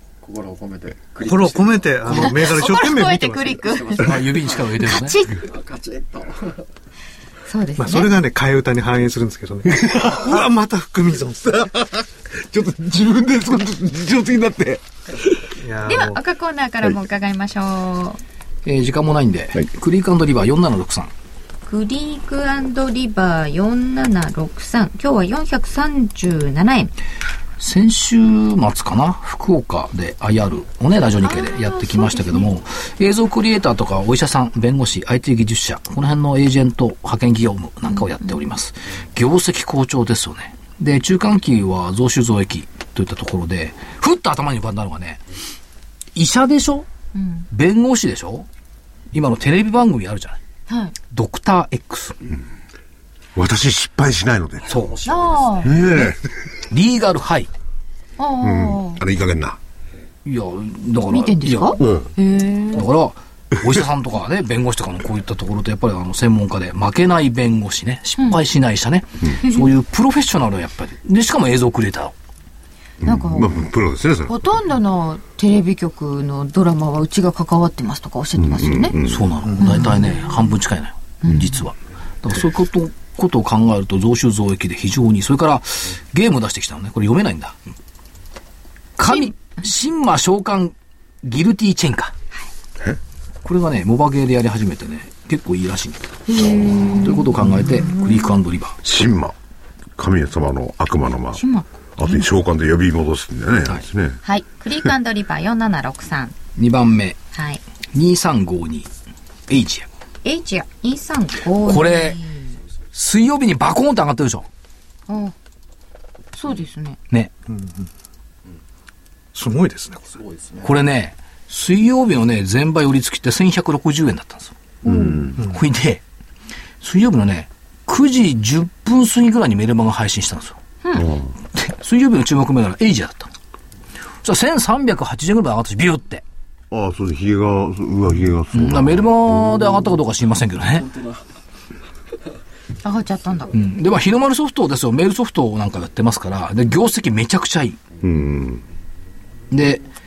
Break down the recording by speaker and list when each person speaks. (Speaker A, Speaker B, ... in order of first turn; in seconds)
Speaker A: 0.2-2.4, 3.6-4.6, 5.4-6.6, 54.6-56.0, 120.2-120.7
Speaker B: 1.2-3.7, 7.8-11.7, 15.6-16.2, 117.5-117.9, 119.3-120.2
Speaker C: 2.1-4.1, 4.8-5.5, 7.5-8.2, 15.9-18.2, 21.7-26.9, 31.2-32.5, 37.9-38.3, 47.1-47.5, 50.7-50.9, 55.0-56.0, 58.2-59.0, 61.1-62.9, 69.4-69.7, 73.0-73.5, 74.3-79.0, 79.6-80.5, 81.2-81.5, 89.0-89.5, 96.3-98.4, 101.3-102.3, 104.2-106.3, 107.3-107.6, 110.2-112.5, 115.1-115.3, 116.4-117.0, 124.8-125.3, 130.8-131.1, 142.8-143.5
Speaker D: 4.0-5.2, 18.6-21.1, 27.6-45.2, 46.1-46.9, 47.5-48.5, 49.1-50.4, 51.1-52.2, 56.7-57.5, 60.2-61.9, 62.7-72.1, 79.1-87.6, 89.0-92.1, 93.4-98.8, 106.6-107.2, 107.9-108.9, 109.5-109.9, 111.6-112.2, 112.9-114.5, 120.6-124.5, 125.4-126.0, 126.8-130.6, 131.5-133.3, 134.2-136.2, 138.5-141.1, 143.5-147.8, 149.5-149.8
Speaker E: 11.5-15.5, 53.4-54.9, 55.6-56.2, 58.4-59.6, 61.8-62.1, 73.0-74.4, 78.4-79.6, 98.8-99.3, 100.0-101.4, 102.0-104.2, 124.9-125.4, 130.9-131.3, 136.7-139.7, 148.0-148.6